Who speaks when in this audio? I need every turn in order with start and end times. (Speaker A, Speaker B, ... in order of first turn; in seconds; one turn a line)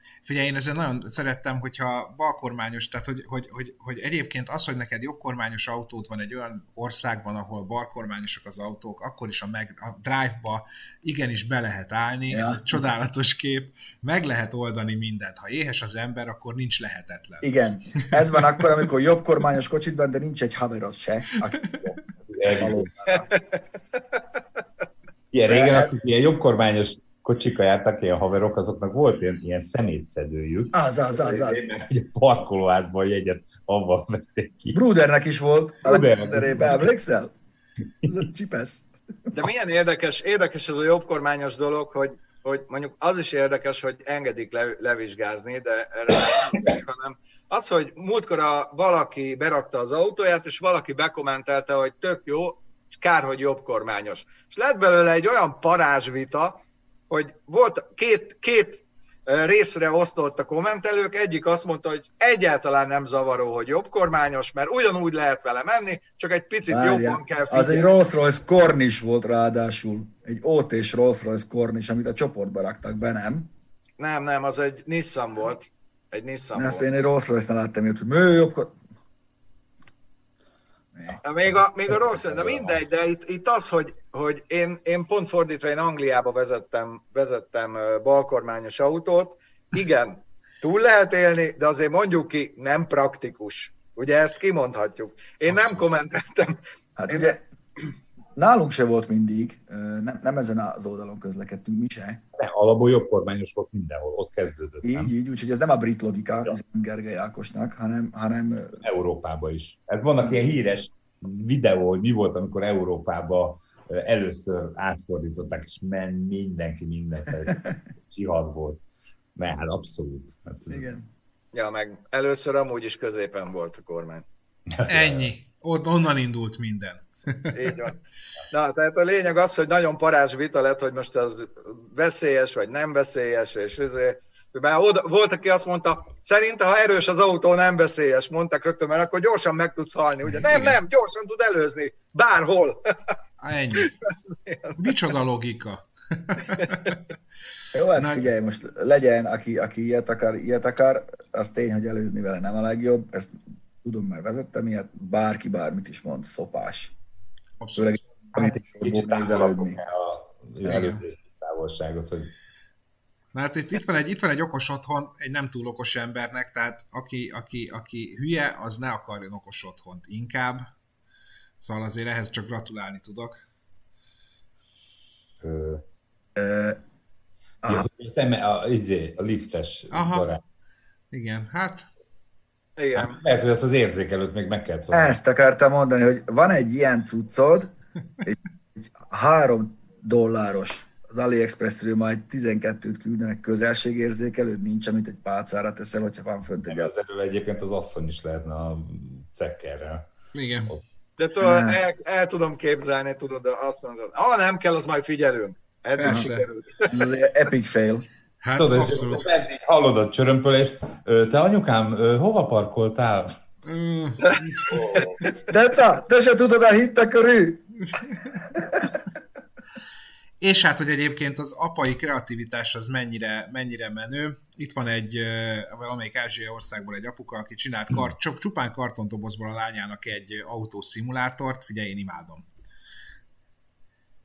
Speaker A: 0.2-18.5
Speaker B: 12.3-12.6
Speaker B: 17.4-22.0
Speaker C: 22.3-22.9
Speaker B: 22.5-23.3
Speaker D: 23.1-23.6
Speaker C: 25.3-34.8
Speaker B: 25.5-25.9
Speaker B: 30.7-31.7
Speaker B: 34.7-37.3
Speaker C: 35.8-36.9
Speaker B: 38.0-38.9
Speaker D: 39.3-67.9
Speaker B: 66.7-73.5
Speaker D: 74.0-76.8
Speaker B: 76.5-78.8
Speaker B: 80.9-81.2
Speaker D: 81.2-97.3
Speaker C: 82.0-82.8
Speaker B: 97.0-97.4
Speaker B: 98.3-102.2
Speaker C: 102.3-105.1
Speaker B: 104.8-108.8
Speaker C: 108.8-118.8
Speaker C: 119.3-120.9
Speaker B: 120.7-121.0
Speaker D: 121.5-124.2
Speaker C: 124.7-125.3
Speaker A: 124.9-127.7
Speaker D: 127.5-128.0
Speaker D: 128.5-143.1
Speaker A: 140.5-140.8
Speaker A: 143.4-143.9
Speaker D: 143.8-144.9
Speaker A: 144.8-147.0
Speaker B: 147.7-156.9
Speaker A: 147.9-148.3
Speaker A: 157.6-158.0
Speaker B: 157.7-159.8
Speaker C: 158.3-162.3
Speaker A: 160.6-161.0
Speaker A: 163.3-170.7
Speaker A: 171.6-173.4
Speaker C: 175.4-175.8
Speaker B: 176.3-176.8
Speaker C: 177.6-180.4
Speaker A: 179.9-180.3
Speaker A: 181.1-181.9
Speaker D: 182.8-183.2
Speaker C: 182.9-185.2
Speaker B: 184.9-187.7
Speaker B: 188.2-196.9
Speaker C: 196.7-200.1
Speaker A: 200.3-200.7
Speaker D: 201.2-207.0
Speaker B: 201.4-201.8
Speaker A: 206.0-206.4
Speaker B: 206.0-206.3
Speaker B: 206.9-208.1
Speaker A: 208.4-209.3
Speaker C: 208.6-213.4
Speaker A: 213.6-215.0
Speaker C: 214.7-215.2
Speaker D: 214.9-215.3
Speaker B: 215.5-217.7
Speaker B: 218.5-218.9
Speaker A: 220.4-232.5